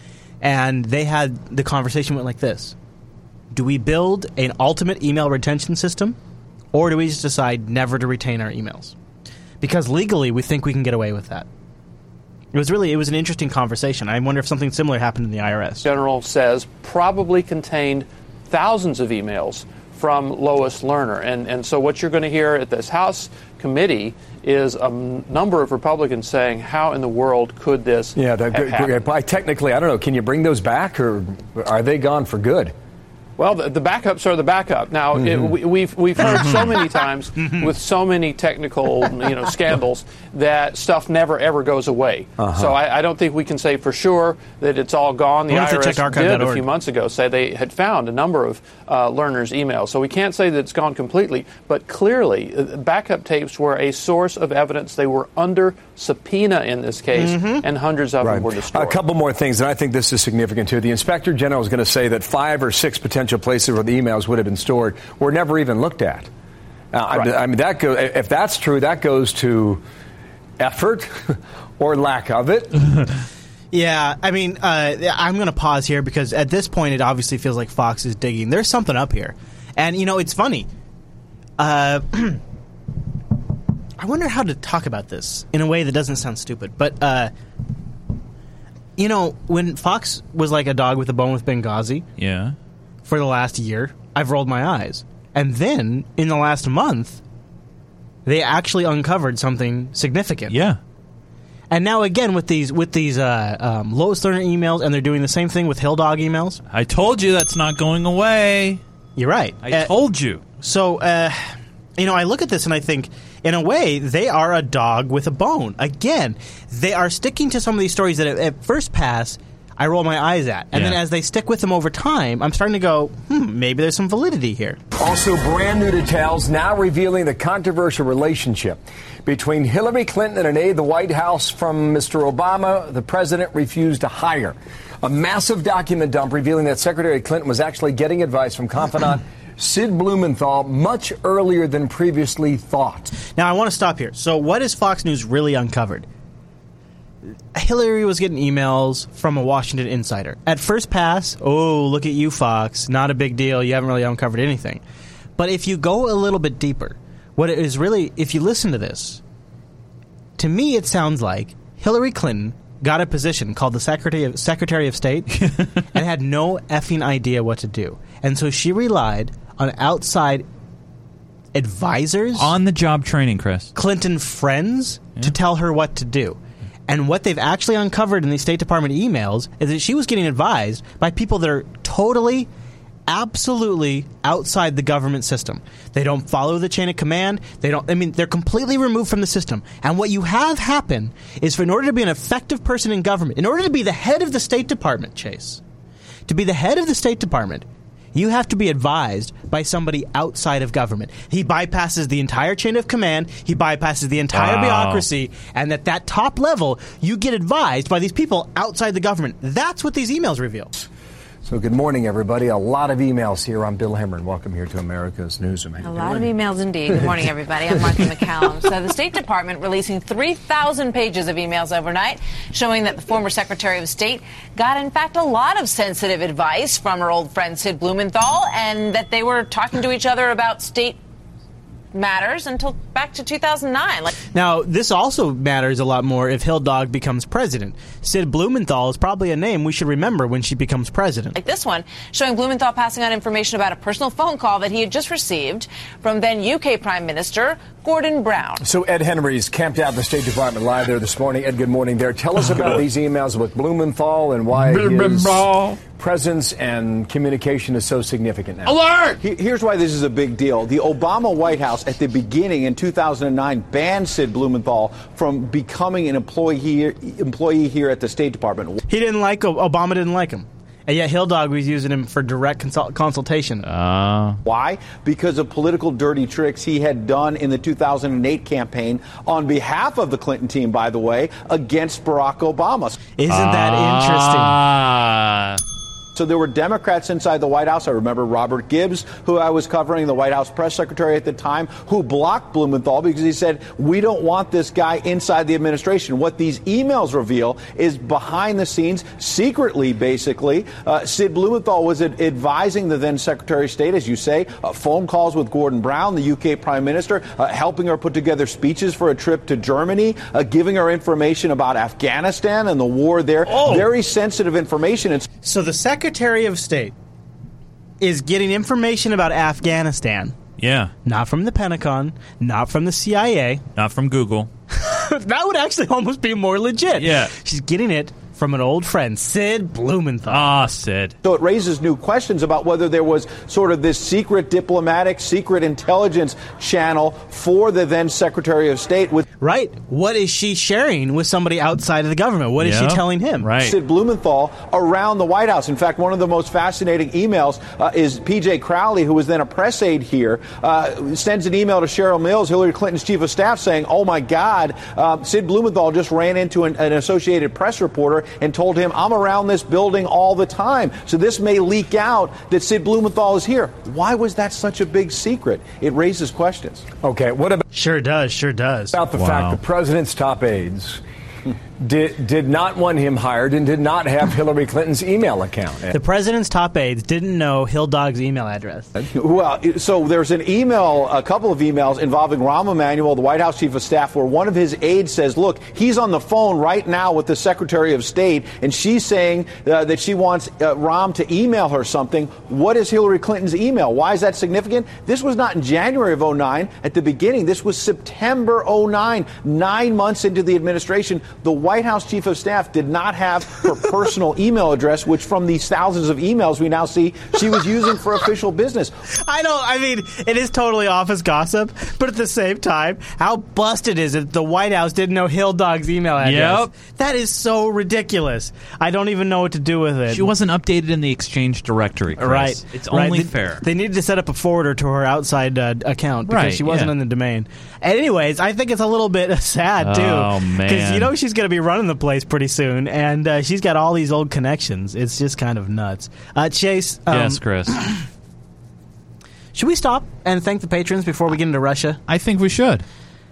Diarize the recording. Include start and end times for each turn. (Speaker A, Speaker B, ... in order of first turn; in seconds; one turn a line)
Speaker A: 0.4-2.7
Speaker A: 3.5-6.2
Speaker A: 6.7-8.9
Speaker A: 9.6-11.4
Speaker A: 12.5-15.8
Speaker B: 15.8-29.0
Speaker C: 28.1-32.7
Speaker B: 33.4-59.0
Speaker C: 35.1-35.5
Speaker A: 37.4-37.7
Speaker C: 42.4-42.8
Speaker A: 45.5-46.7
Speaker A: 57.1-57.6
Speaker C: 58.2-66.3
Speaker C: 66.9-69.8
Speaker C: 70.6-73.0
Speaker A: 73.7-80.7
Speaker A: 81.6-82.4
Speaker A: 84.0-87.3
Speaker A: 89.0-92.0
Speaker D: 92.2-92.5
Speaker A: 93.0-97.2
Speaker A: 98.2-100.5
Speaker D: 100.5-100.8
Speaker A: 101.7-106.6
Speaker D: 106.7-108.8
Speaker A: 109.2-109.9
Speaker D: 109.6-110.4
Speaker A: 110.6-124.8
Speaker D: 120.7-121.0
Speaker C: 124.9-143.1
Speaker A: 143.3-146.1
Speaker A: 147.5-154.8
Speaker A: 155.4-159.2
Speaker A: 160.4-165.4
Speaker D: 165.4-165.7
Speaker A: 165.9-170.4
Speaker A: 171.5-172.5
Speaker D: 172.3-173.7
Speaker A: 173.7-182.5
Speaker A: 183.1-195.6
Speaker A: 196.3-210.7
Speaker D: 204.3-205.1
Speaker C: 211.4-216.3
Speaker E: 215.8-231.0
Speaker E: 231.9-234.1
Speaker A: 234.3-241.3
Speaker E: 241.3-248.6
Speaker C: 248.6-258.8
Speaker D: 254.6-255.8
Speaker D: 258.7-259.1
Speaker F: 259.2-268.8
Speaker A: 268.9-273.6
Speaker D: 273.6-274.4
Speaker F: 274.5-282.9
Speaker A: 283.2-284.6
Speaker D: 283.3-285.6
Speaker F: 286.1-315.3
Speaker A: 313.5-313.9
Speaker A: 315.4-316.9
Speaker A: 318.0-320.3
Speaker D: 320.6-320.9
Speaker A: 321.0-323.6
Speaker D: 323.8-324.5
Speaker A: 324.7-330.4
Speaker D: 326.9-327.3
Speaker D: 330.3-331.1
Speaker F: 331.2-339.2
Speaker A: 339.4-343.5
Speaker D: 342.6-343.8
Speaker F: 343.6-366.9
Speaker C: 367.0-367.6
Speaker A: 367.7-368.9
Speaker C: 368.9-371.0
Speaker D: 369.1-369.6
Speaker C: 371.8-375.9
Speaker A: 375.9-378.9
Speaker F: 379.0-408.9
Speaker A: 409.2-420.3
Speaker D: 416.2-416.7
Speaker D: 420.1-423.6
Speaker A: 422.2-438.0
Speaker D: 426.3-426.9
Speaker D: 429.8-431.1
Speaker D: 437.1-437.8
Speaker A: 439.5-442.0
Speaker D: 442.1-442.8